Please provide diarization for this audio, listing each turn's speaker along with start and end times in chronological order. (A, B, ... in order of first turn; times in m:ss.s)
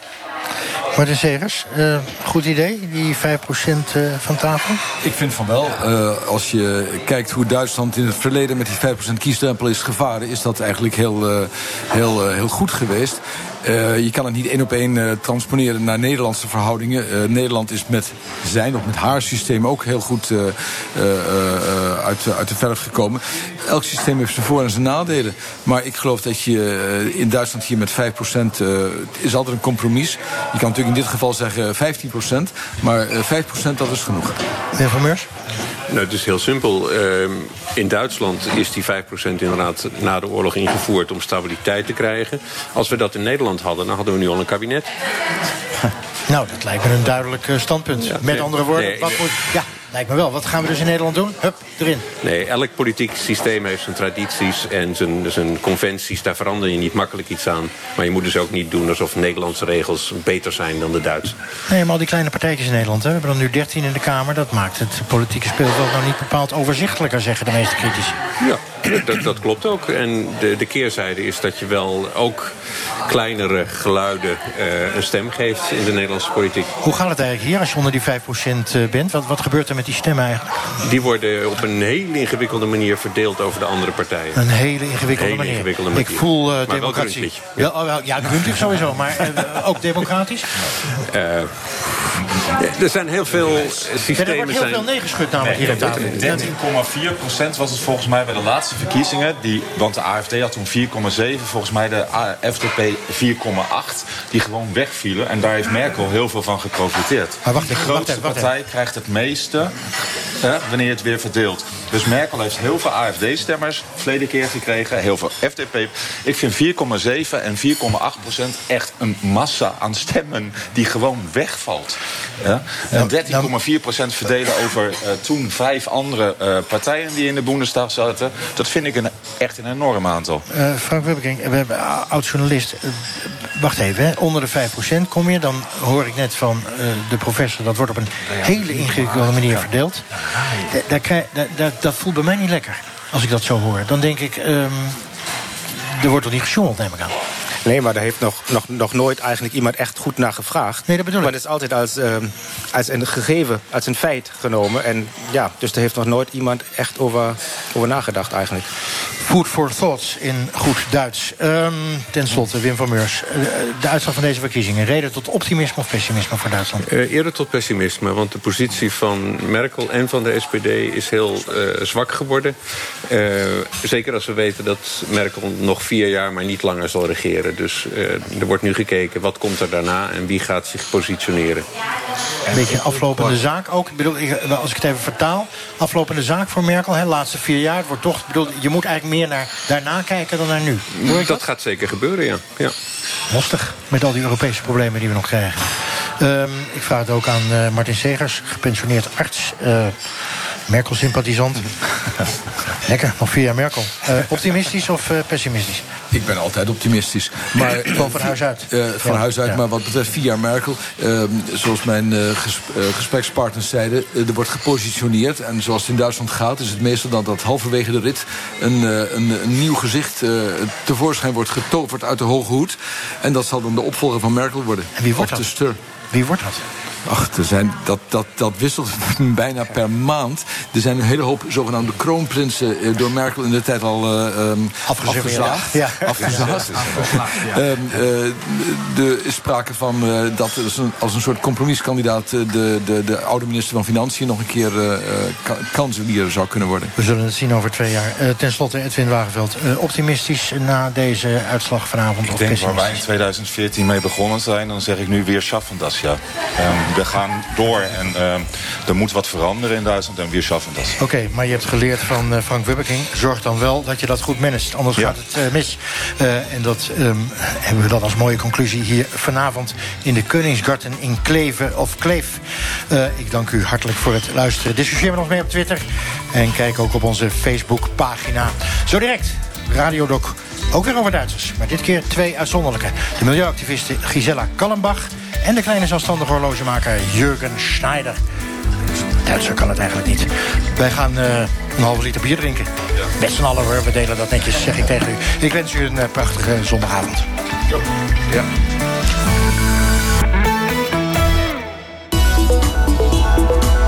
0:01.0-0:04.8 A
0:05.0-0:34.4 B
0:34.8-0:35.3 A
0:35.9-0:44.9 C
0:46.3-0:52.1 A
0:48.0-0:49.2 C
0:52.2-1:01.4 C
1:01.7-1:08.2 A
1:08.4-1:12.5 C
1:13.1-1:16.7 C
1:16.8-1:20.8 A
1:20.8-1:24.4 C
1:24.3-1:30.5 A
1:25.1-1:27.7 C
1:31.0-1:34.9 C
1:34.2-1:36.5 A
1:35.4-1:36.4 C
1:35.5-1:49.8 D
1:47.4-1:48.5 A
1:50.4-2:10.4 D
2:02.9-2:03.5 A
2:10.5-2:25.0 A
2:25.8-2:27.2 A
2:27.6-2:38.7 E
2:30.9-2:31.4 A
2:39.2-2:46.9 A
2:46.8-3:01.7 C
3:02.5-3:11.4 A
3:11.0-3:12.7 C
3:13.3-3:20.0 A
3:20.7-3:21.7 A
3:22.8-3:25.8 A
3:26.1-3:45.8 B
3:27.9-3:29.6 A
3:45.0-3:45.5 A
3:46.1-3:46.6 A
3:47.1-4:06.9 B
3:54.9-3:57.0 A
3:56.2-3:57.0 D
4:07.0-4:13.0 A
4:12.3-4:21.0 D
4:21.0-4:48.2 A
4:49.2-4:57.3 A